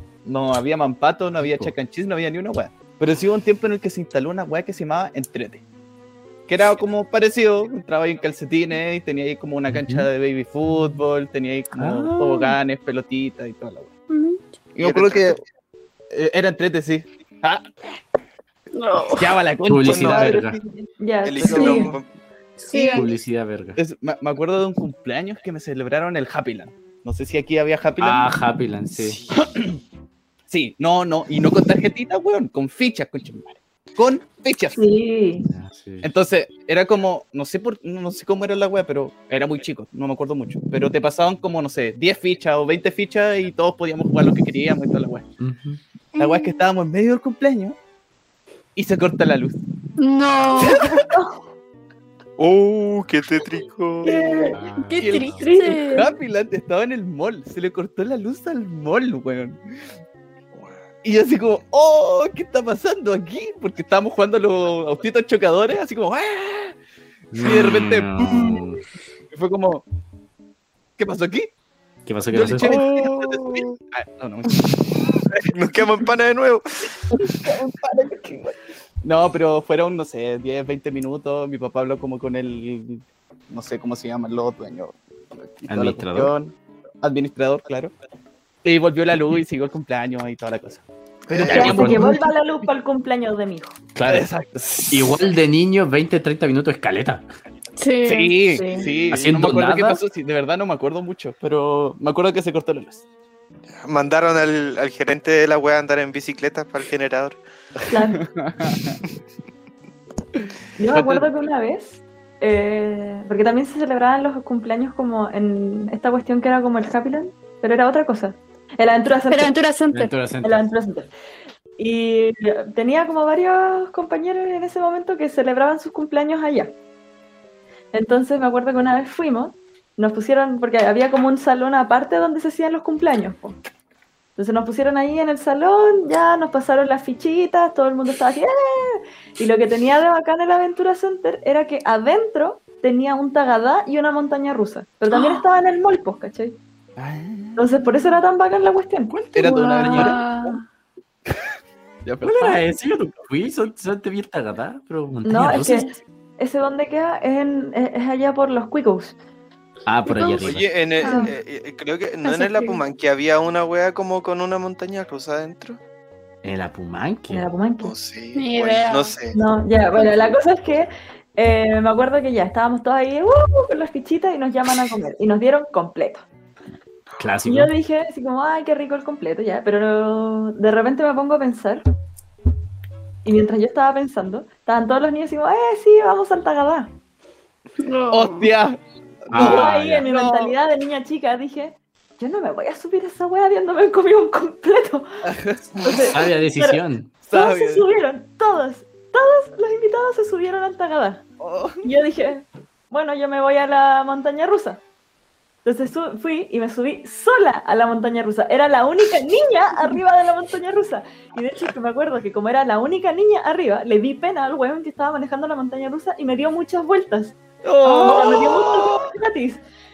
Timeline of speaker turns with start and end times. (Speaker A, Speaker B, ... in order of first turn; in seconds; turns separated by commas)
Speaker A: 0.2-5.6, Speaker B: 1.4-1.7, Speaker A: 6.5-13.9, Speaker B: 9.7-10.1, Speaker B: 11.8-12.5, Speaker C: 14.1-14.4, Speaker A: 14.8-15.4, Speaker D: 14.8-15.4, Speaker A: 16.1-17.7, Speaker C: 18.7-19.4, Speaker A: 19.1-20.4, Speaker B: 19.7-20.6, Speaker D: 19.9-20.4, Speaker E: 20.3-21.9, Speaker D: 21.2-22.1, Speaker A: 21.4-21.9, Speaker C: 22.6-23.1, Speaker E: 22.7-23.0, Speaker B: 22.9-23.8, Speaker A: 23.8-28.3, Speaker B: 28.0-29.2, Speaker A: 29.3-29.8, Speaker A: 30.5-34.8, Speaker E: 34.8-35.5, Speaker B: 35.5-36.1, Speaker A: 36.0-45.3, Speaker B: 45.4-45.8, Speaker C: 46.2-46.7, Speaker A: 46.2-47.8, Speaker A: 48.8-49.6, Speaker C: 50.0-50.9, Speaker A: 50.6-51.1, Speaker E: 50.7-51.4, Speaker D: 52.4-54.6, Speaker E: 54.0-54.6, Speaker B: 54.5-55.4, Speaker C: 54.9-56.1, Speaker A: 55.0-59.6, Speaker E: 55.3-56.1, Speaker A: 61.0-66.8, Speaker B: 67.3-68.8, Speaker A: 67.3-68.6, Speaker A: 69.3-69.8, Speaker A: 71.0-71.5, Speaker B: 72.1-72.8, Speaker A: 72.3-75.5, Speaker D: 72.6-73.8, Speaker D: 75.5-77.0, Speaker A: 77.1-87.9, Speaker B: 85.7-86.3, Speaker A: 88.6-92.2, Speaker D: 91.3-91.8, Speaker B: 91.5-92.1, Speaker E: 91.5-93.8, Speaker B: 94.0-94.3, Speaker A: 94.1-95.1, Speaker B: 94.9-97.2, Speaker C: 97.8-98.4, Speaker A: 98.0-103.0, Speaker E: 98.5-98.9, Speaker D: 98.8-99.2, Speaker B: 99.1-100.0, Speaker D: 103.8-107.4, Speaker A: 107.9-109.0, Speaker E: 107.9-108.2, Speaker E: 110.8-119.5, Speaker A: 110.9-111.3, Speaker C: 119.3-120.1, Speaker B: 119.9-120.7, Speaker E: 120.4-121.1, Speaker E: 121.8-126.8, Speaker E: 127.9-133.6, Speaker E: 134.4-146.6, Speaker C: 145.1-145.4, Speaker A: 147.0-147.7, Speaker E: 147.6-149.2, Speaker B: 149.1-150.2, Speaker A: 149.3-150.5, Speaker C: 149.4-150.6, Speaker A: 152.0-152.7, Speaker B: 152.2-155.9, Speaker E: 155.2-159.2, Speaker B: 159.9-160.7, Speaker C: 160.1-160.5, Speaker D: 160.4-165.8, Speaker C: 161.0-161.3, Speaker E: 161.0-161.3, Speaker C: 162.3-162.8, Speaker B: 166.4-167.5, Speaker E: 167.3-167.9, Speaker D: 167.8-169.4, Speaker C: 168.3-169.2, Speaker E: 169.3-176.2, Speaker B: 177.2-177.7, Speaker E: 177.4-181.8, Speaker E: 183.2-186.9, Speaker C: 187.8-188.5, Speaker A: 188.1-190.6, Speaker B: 189.3-190.0, Speaker E: 189.3-195.1, Speaker A: 195.2-196.0, Speaker E: 195.8-201.2, Speaker B: 195.9-197.1, Speaker A: 197.2-197.9, Speaker A: 201.4-201.9, Speaker E: 201.8-204.8, Speaker E: 205.6-219.6, Speaker A: 217.6-219.1